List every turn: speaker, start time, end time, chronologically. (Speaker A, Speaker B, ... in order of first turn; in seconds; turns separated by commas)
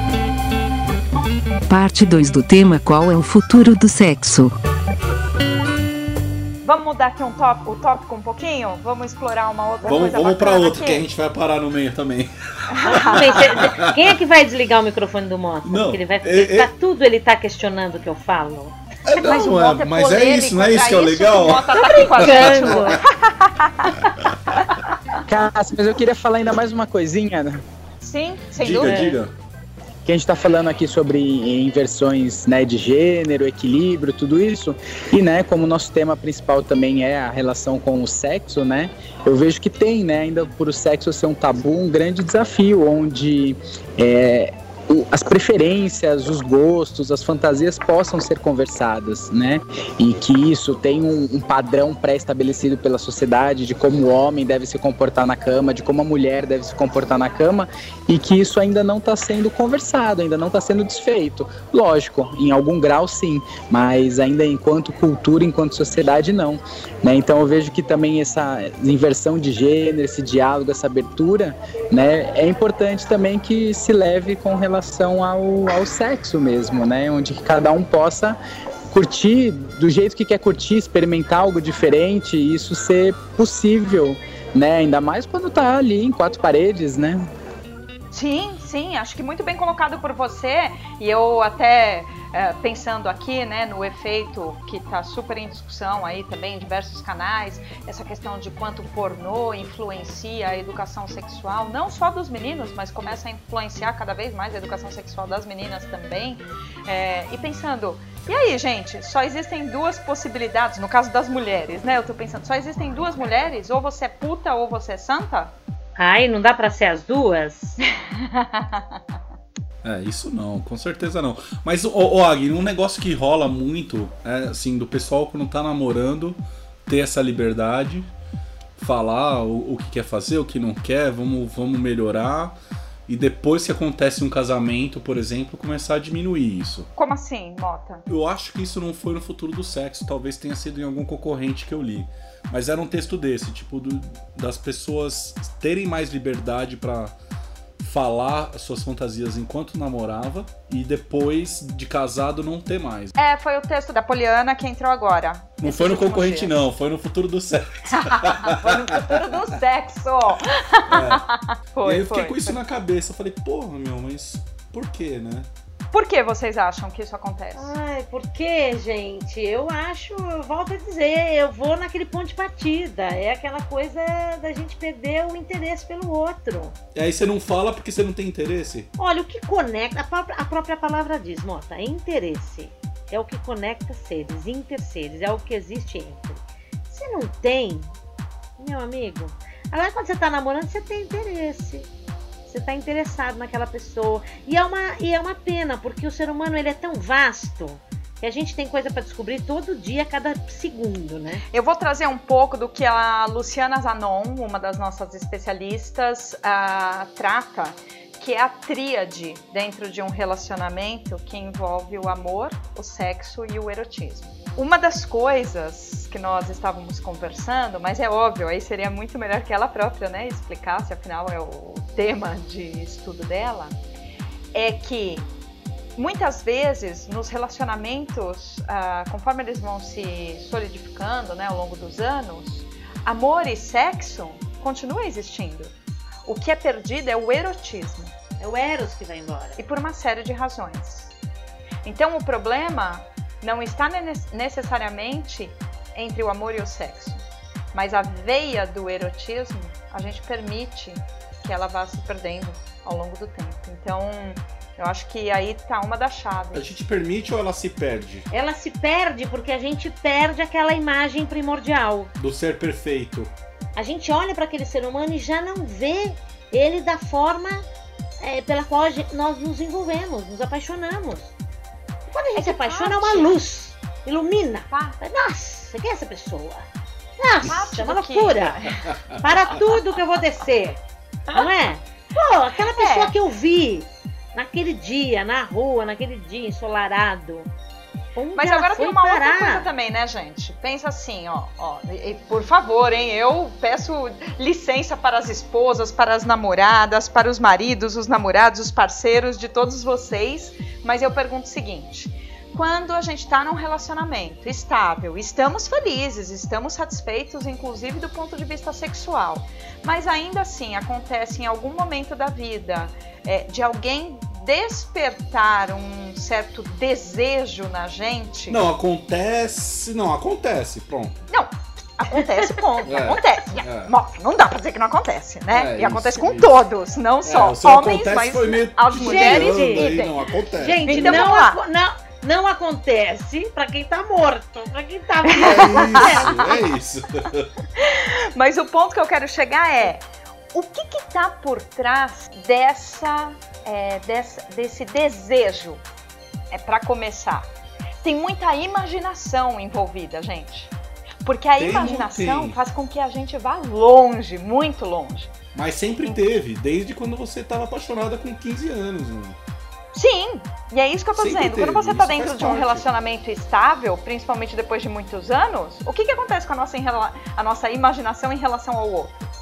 Speaker A: 1.7-4.5, Speaker B: 6.6-11.0, Speaker C: 9.8-14.0, Speaker B: 12.7-13.7, Speaker D: 12.9-18.8, Speaker C: 15.6-16.7, Speaker C: 19.0-22.9, Speaker B: 19.2-24.6, Speaker D: 22.0-23.0, Speaker E: 25.3-27.6, Speaker B: 28.0-29.2, Speaker C: 28.6-29.3, Speaker E: 30.0-78.4, Speaker E: 78.9-87.2, Speaker B: 88.1-115.5, Speaker D: 116.0-117.8, Speaker B: 118.1-119.0, Speaker C: 119.8-128.1, Speaker C: 128.8-132.6, Speaker C: 133.1-136.9, Speaker B: 136.9-138.0, Speaker C: 138.1-147.1, Speaker C: 147.8-153.1, Speaker B: 153.2-156.6, Speaker C: 155.6-159.3, Speaker B: 158.0-162.6, Speaker C: 160.9-161.2, Speaker C: 161.8-165.5, Speaker B: 165.9-167.7, Speaker D: 167.6-176.8, Speaker C: 176.9-178.9, Speaker D: 179.0-187.9, Speaker D: 188.6-191.9, Speaker D: 192.5-201.4, Speaker B: 201.5-223.8, Speaker B: 224.5-225.3, Speaker B: 225.9-235.7, Speaker B: 236.2-238.1, Speaker D: 238.4-239.6, Speaker B: 239.6-241.1, Speaker B: 241.8-256.8, Speaker C: 256.5-258.3, Speaker D: 258.3-262.1, Speaker C: 262.2-263.3, Speaker D: 263.8-267.6, Speaker D: 268.2-271.3, Speaker D: 272.1-276.7, Speaker B: 272.4-273.4, Speaker B: 274.7-275.0, Speaker D: 277.2-280.8, Speaker B: 277.4-279.0, Speaker D: 281.3-287.5, Speaker B: 282.5-283.1, Speaker D: 288.1-289.7, Speaker B: 288.4-318.6, Speaker C: 318.5-321.1, Speaker B: 321.3-330.2, Speaker C: 322.8-323.9, Speaker C: 325.5-326.6, Speaker C: 327.2-331.3, Speaker D: 328.9-330.0, Speaker D: 330.5-336.5, Speaker B: 330.8-331.6, Speaker B: 335.3-336.4, Speaker C: 335.4-337.5, Speaker B: 337.8-345.8, Speaker B: 346.5-347.5, Speaker B: 348.0-355.3, Speaker C: 351.6-352.6, Speaker C: 355.5-359.4, Speaker B: 359.9-369.2, Speaker C: 361.1-362.9